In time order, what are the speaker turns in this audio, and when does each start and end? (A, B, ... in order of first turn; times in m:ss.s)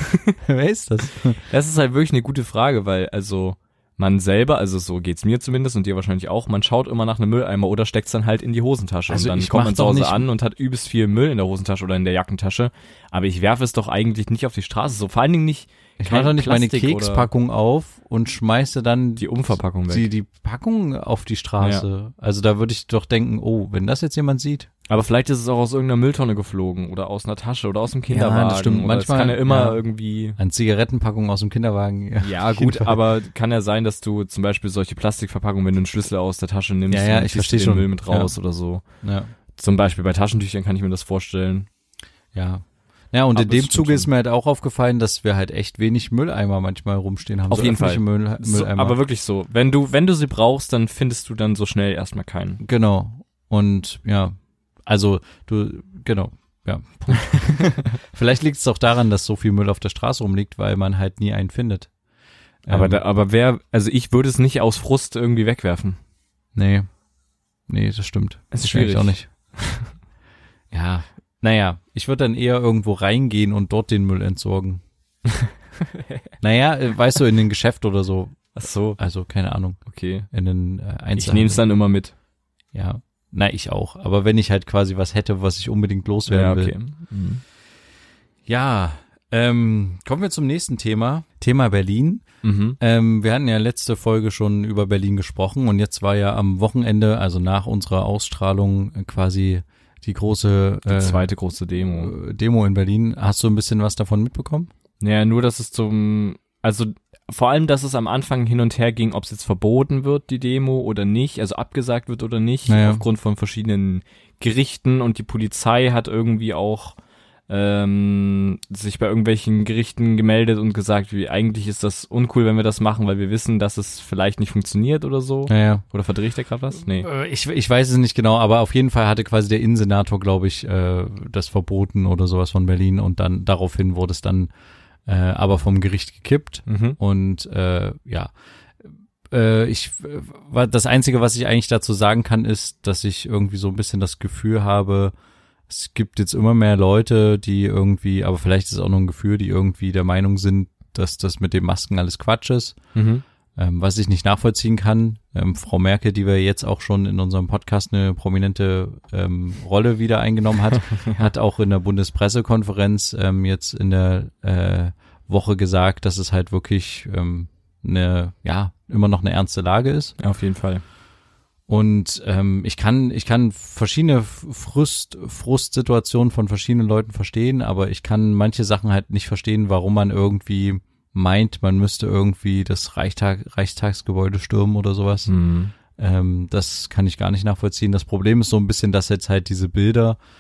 0:00.3-0:01.4 A
0:01.5-0:17.3 B
0:09.1-0:10.2 A
0:16.0-0:19.3 A
0:19.2-0:20.0 B
0:19.9-0:24.7 A
0:21.6-0:21.8 B
0:24.9-0:30.4 B
0:28.1-0:29.8 A
0:30.4-0:33.0 A
0:32.2-0:38.8 B
0:36.9-0:38.3 A
0:39.0-0:39.3 A
0:39.6-0:41.7 B
0:42.3-0:49.0 A
0:43.3-0:44.1 B
0:47.5-0:52.6 B
0:52.6-0:54.4 A
0:54.9-1:01.9 A
1:02.7-1:03.0 A
1:02.7-1:06.0 B
1:06.6-1:06.9 A
1:07.7-1:09.3 A
1:08.5-1:09.9 B
1:10.7-1:14.8 A
1:15.4-1:16.2 B
1:16.4-1:21.6 A
1:18.6-1:19.0 B
1:19.9-1:20.3 B
1:21.2-1:22.1 B
1:22.7-1:26.7 A
1:26.3-1:27.4 B
1:28.5-1:32.2 A
1:32.4-1:32.8 B
1:32.8-1:41.3 A
1:40.9-1:42.1 B
1:41.9-1:44.7 A
1:45.0-1:57.0 B
1:52.7-1:53.0 A
1:57.5-2:07.1 B
2:05.5-2:05.8 A
2:06.9-2:14.5 A
2:15.1-2:18.3 A
2:16.7-2:17.0 B
2:19.3-2:25.1 A
2:25.7-2:32.8 A
2:33.0-2:33.2 B
2:33.6-2:50.2 A
2:40.9-2:41.3 B
2:50.2-2:50.8 B
2:51.7-3:05.3 A
3:05.3-3:05.7 B
3:06.0-3:10.2 A